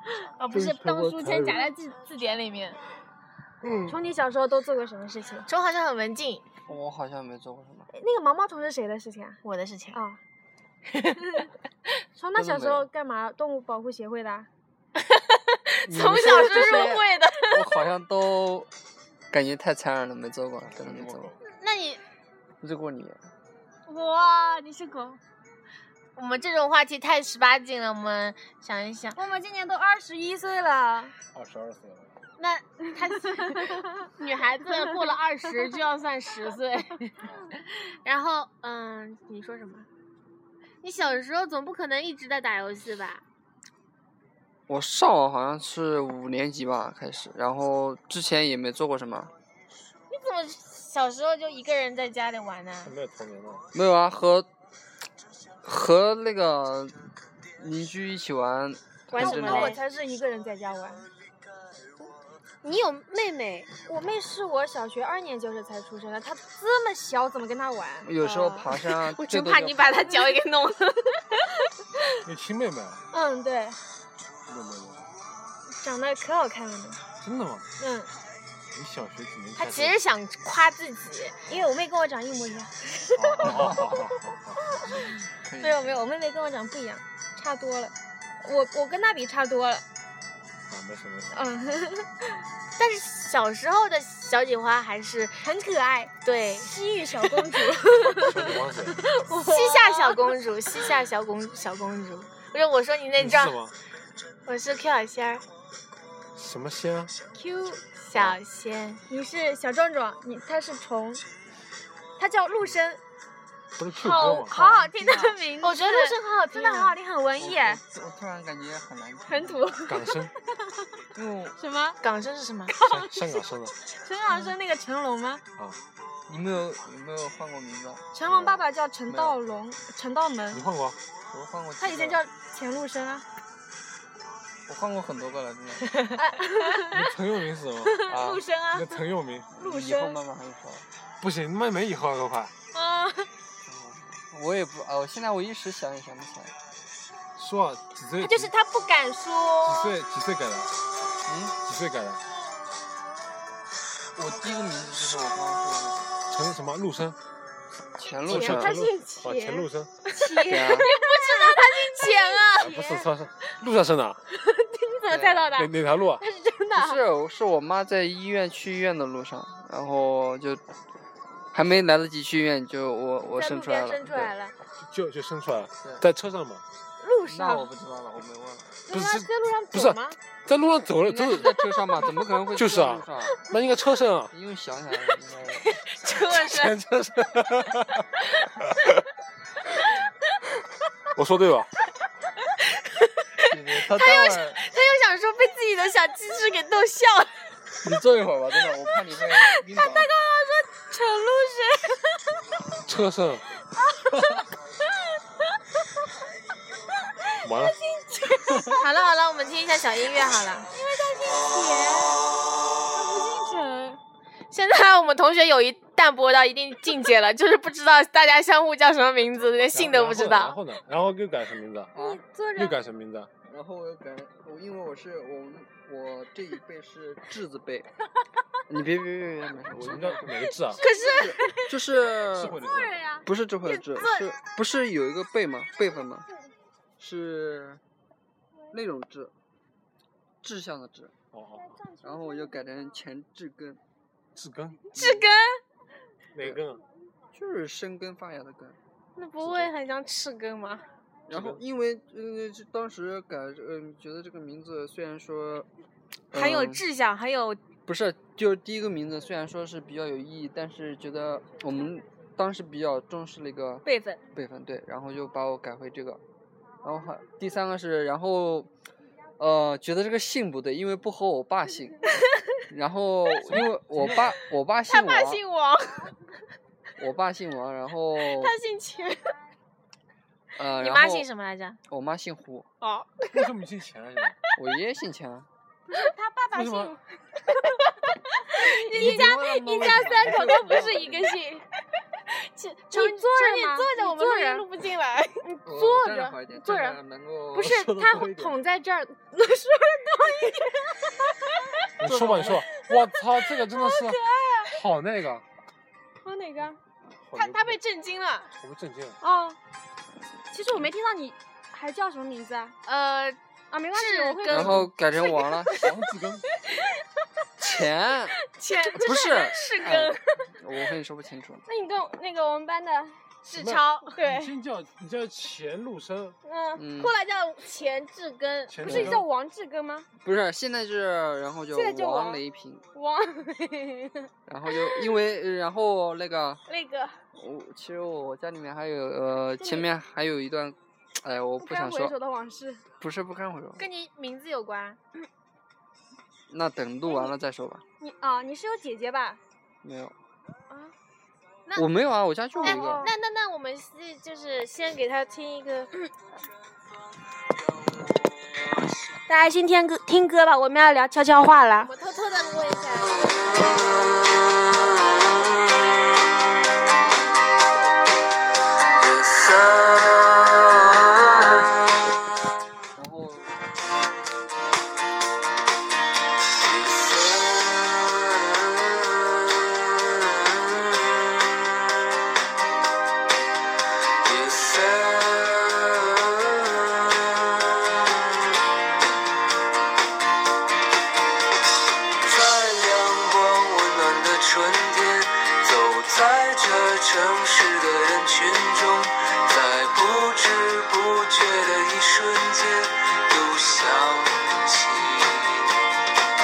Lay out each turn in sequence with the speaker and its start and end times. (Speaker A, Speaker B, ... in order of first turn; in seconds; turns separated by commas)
Speaker A: 0.4-2.8, Speaker B: 0.5-1.7, Speaker B: 3.6-4.0, Speaker C: 3.9-5.5, Speaker A: 5.5-6.5, Speaker D: 6.7-7.9, Speaker C: 7.9-9.4, Speaker A: 9.4-10.0, Speaker C: 9.9-10.2, Speaker A: 10.9-11.5, Speaker C: 12.2-14.5, Speaker D: 12.3-12.9, Speaker A: 15.0-17.6, Speaker B: 15.9-16.7, Speaker D: 16.4-18.7, Speaker D: 19.3-21.3, Speaker B: 20.6-21.4, Speaker A: 21.4-22.0, Speaker D: 22.6-23.2, Speaker A: 23.9-25.2, Speaker A: 26.2-29.2, Speaker C: 29.1-31.1, Speaker B: 31.3-32.1, Speaker A: 32.4-39.9, Speaker C: 33.4-33.6, Speaker A: 40.8-43.2, Speaker D: 44.7-49.3, Speaker A: 50.1-52.9, Speaker B: 52.8-53.6, Speaker D: 53.7-54.5, Speaker D: 55.6-57.0, Speaker D: 57.6-59.8, Speaker A: 59.1-59.8, Speaker C: 59.2-61.1, Speaker A: 62.6-63.7, Speaker C: 63.9-68.7, Speaker D: 68.0-70.1, Speaker A: 68.9-71.3, Speaker B: 72.2-73.0, Speaker C: 73.1-73.8, Speaker B: 74.5-75.1, Speaker C: 75.7-77.0, Speaker B: 77.2-77.7, Speaker C: 77.8-78.1, Speaker B: 78.7-80.0, Speaker A: 79.6-81.4, Speaker C: 81.5-84.1, Speaker B: 83.2-84.6, Speaker C: 84.8-89.8, Speaker D: 85.3-86.0, Speaker B: 90.7-91.3, Speaker C: 91.3-92.3, Speaker A: 92.8-95.4, Speaker C: 95.4-100.4, Speaker A: 96.2-96.7, Speaker B: 98.1-99.0, Speaker A: 99.4-103.6, Speaker B: 103.2-103.8, Speaker A: 104.5-105.5, Speaker B: 106.3-107.1, Speaker C: 107.3-107.8, Speaker A: 108.0-109.0, Speaker B: 108.1-108.4, Speaker C: 109.1-111.2, Speaker C: 112.2-113.0, Speaker B: 113.8-114.5, Speaker C: 114.0-117.8, Speaker A: 114.0-117.0, Speaker D: 117.4-119.8, Speaker C: 119.3-120.2, Speaker B: 119.9-120.3, Speaker D: 121.2-121.6, Speaker C: 121.6-122.0, Speaker A: 122.0-122.8, Speaker C: 122.8-123.2, Speaker B: 122.8-123.8, Speaker C: 124.0-125.4, Speaker D: 126.3-128.4, Speaker C: 128.1-130.6, Speaker D: 129.1-129.4, Speaker B: 130.5-131.0, Speaker D: 131.3-132.2, Speaker C: 131.8-133.2, Speaker D: 134.7-135.9, Speaker C: 136.2-137.1, Speaker B: 136.9-138.1, Speaker C: 138.1-138.9, Speaker D: 138.1-138.5, Speaker B: 138.7-139.5, Speaker D: 139.5-140.9, Speaker C: 139.6-140.2, Speaker B: 141.2-142.5, Speaker C: 142.8-143.2, Speaker D: 143.6-146.5, Speaker B: 147.4-148.5, Speaker C: 148.2-149.9, Speaker B: 149.7-150.7, Speaker D: 151.3-151.6, Speaker B: 151.6-152.2, Speaker D: 154.2-156.1, Speaker B: 156.3-157.2, Speaker D: 158.0-158.7, Speaker B: 158.2-159.9, Speaker C: 158.2-162.5, Speaker A: 160.2-163.0, Speaker D: 160.5-160.9, Speaker B: 162.6-164.2, Speaker C: 164.3-167.0, Speaker D: 165.1-165.6, Speaker B: 165.5-166.2, Speaker D: 166.7-170.6, Speaker D: 171.5-174.3, Speaker C: 173.4-174.5, Speaker B: 174.8-176.6, Speaker D: 175.8-176.1, Speaker C: 177.0-177.7, Speaker D: 177.3-178.8, Speaker C: 178.9-180.2, Speaker B: 178.9-181.6, Speaker D: 181.0-183.4, Speaker B: 182.5-184.3, Speaker D: 184.3-185.8, Speaker A: 185.6-186.8, Speaker B: 186.3-188.1, Speaker B: 188.6-188.9, Speaker B: 191.2-191.7, Speaker A: 192.6-197.5, Speaker D: 193.5-194.6, Speaker D: 197.8-200.1, Speaker A: 199.6-201.7, Speaker C: 200.4-201.8, Speaker B: 202.7-203.5, Speaker C: 204.0-204.3, Speaker B: 207.4-207.8, Speaker C: 207.7-208.8, Speaker A: 208.8-210.7, Speaker C: 210.7-212.2, Speaker C: 212.9-214.0, Speaker A: 214.5-220.6, Speaker B: 219.7-221.9, Speaker D: 221.9-222.2, Speaker C: 222.0-222.8, Speaker B: 222.6-223.3, Speaker D: 223.4-227.9, Speaker D: 228.7-232.6, Speaker B: 229.7-230.8, Speaker C: 230.8-231.7, Speaker A: 230.8-231.4, Speaker B: 232.3-233.1, Speaker C: 232.4-233.3, Speaker D: 233.2-236.3, Speaker D: 237.0-237.8, Speaker D: 238.7-239.3, Speaker D: 240.4-241.1, Speaker B: 241.3-241.8, Speaker C: 241.6-242.7, Speaker D: 242.0-243.8, Speaker B: 244.4-244.9, Speaker D: 244.9-245.3, Speaker A: 245.0-245.6, Speaker B: 246.3-246.8, Speaker D: 247.3-248.8, Speaker A: 249.2-250.9, Speaker D: 249.4-249.7, Speaker D: 251.3-255.7, Speaker B: 251.3-251.6, Speaker D: 256.3-256.9, Speaker A: 256.3-257.6, Speaker D: 257.9-266.2, Speaker A: 263.9-264.2, Speaker D: 266.8-268.7, Speaker D: 269.4-272.1, Speaker D: 272.7-275.4, Speaker B: 273.4-274.3, Speaker A: 274.9-276.1, Speaker D: 277.0-278.6, Speaker A: 278.2-279.4, Speaker D: 280.6-281.3, Speaker A: 280.8-281.8, Speaker D: 281.9-282.7, Speaker A: 282.8-283.5, Speaker B: 283.3-284.4, Speaker D: 284.6-285.5, Speaker C: 285.9-287.0, Speaker B: 286.5-286.9, Speaker C: 288.5-291.6, Speaker D: 288.9-291.3, Speaker A: 292.3-295.5, Speaker C: 292.9-294.7, Speaker C: 295.4-297.0, Speaker D: 295.7-298.6, Speaker C: 297.5-301.5, Speaker B: 302.0-305.4, Speaker D: 302.0-302.6, Speaker C: 303.6-304.7, Speaker C: 306.2-306.8, Speaker B: 307.2-307.8, Speaker A: 307.4-308.5, Speaker B: 308.6-309.2, Speaker C: 309.2-309.6, Speaker C: 310.5-312.8, Speaker A: 312.9-313.4, Speaker C: 313.7-314.9, Speaker A: 313.9-315.9, Speaker D: 314.5-315.8, Speaker B: 315.8-316.4, Speaker D: 317.6-318.4, Speaker A: 318.5-320.5, Speaker D: 318.9-321.6, Speaker C: 321.7-323.2, Speaker A: 323.4-324.2, Speaker B: 323.5-326.4, Speaker C: 324.1-324.5, Speaker C: 326.4-326.8, Speaker D: 326.8-327.1, Speaker A: 326.9-329.1, Speaker B: 328.7-329.3, Speaker C: 328.8-330.1, Speaker D: 330.2-332.8, Speaker C: 331.7-332.4, Speaker C: 332.9-335.1, Speaker D: 334.5-336.6, Speaker C: 336.7-337.2, Speaker D: 337.4-342.1, Speaker C: 339.6-339.9, Speaker C: 341.6-342.8, Speaker D: 343.0-343.9, Speaker A: 343.8-345.0, Speaker D: 346.5-347.8, Speaker C: 347.1-347.3, Speaker C: 348.0-349.4, Speaker D: 349.8-350.1, Speaker D: 351.8-353.1, Speaker C: 352.6-353.1, Speaker A: 352.6-355.9, Speaker C: 359.3-361.9, Speaker A: 361.8-363.9, Speaker E: 364.1-365.2, Speaker E: 368.9-371.8, Speaker D: 372.9-373.6, Speaker E: 376.6-381.5, Speaker E: 384.2-388.1, Speaker E: 392.2-405.8